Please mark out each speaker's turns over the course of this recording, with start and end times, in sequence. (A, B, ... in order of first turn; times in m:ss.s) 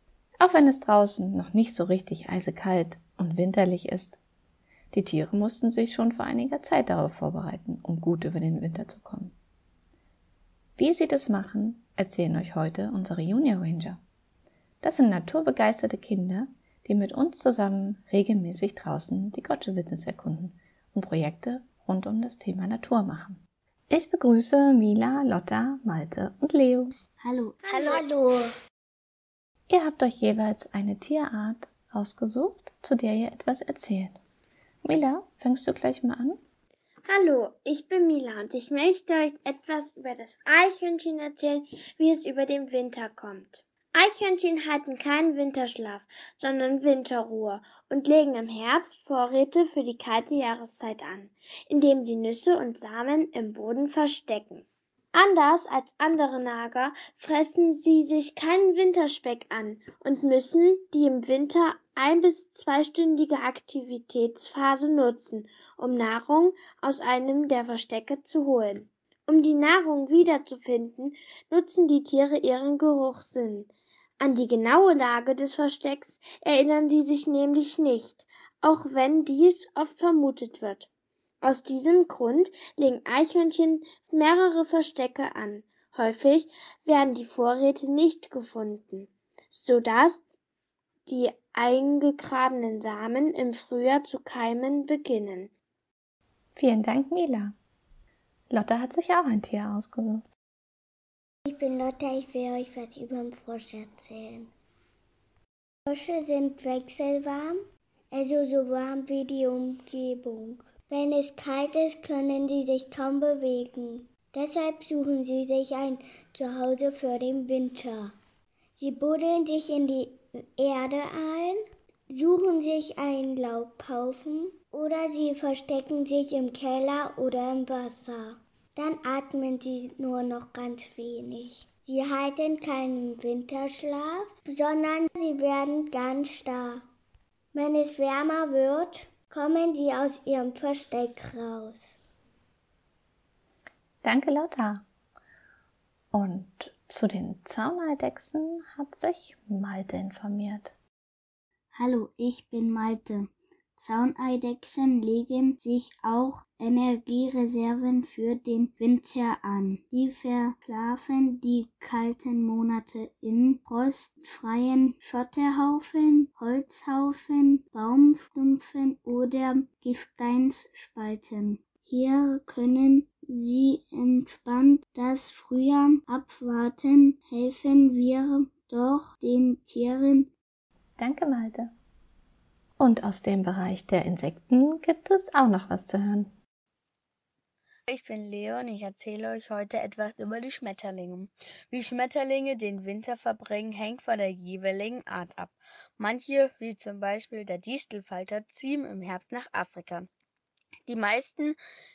0:00.4-0:04.2 A
0:04.9-0:09.4 A
0:10.8-0:14.0 A
0:14.8-0:26.9 A
0:27.2-0:28.0 B
0:27.7-0:28.5 C
0:29.7-0:34.2 A
0:34.8-0:36.4 A
0:37.1-1:20.9 D
1:21.4-1:30.2 D
1:31.1-1:35.5 D
1:36.6-1:37.6 A
1:38.5-1:40.2 A
1:41.5-1:44.5 C
1:45.9-1:47.6 C
1:48.1-1:58.1 C
1:58.8-2:16.8 C
2:17.5-2:21.9 C
2:24.0-2:24.8 A
2:26.1-2:30.7 A
2:31.7-3:00.3 B
3:01.0-3:01.7 A
3:02.8-3:06.3 A
3:07.9-3:20.1 E
3:20.9-3:21.6 E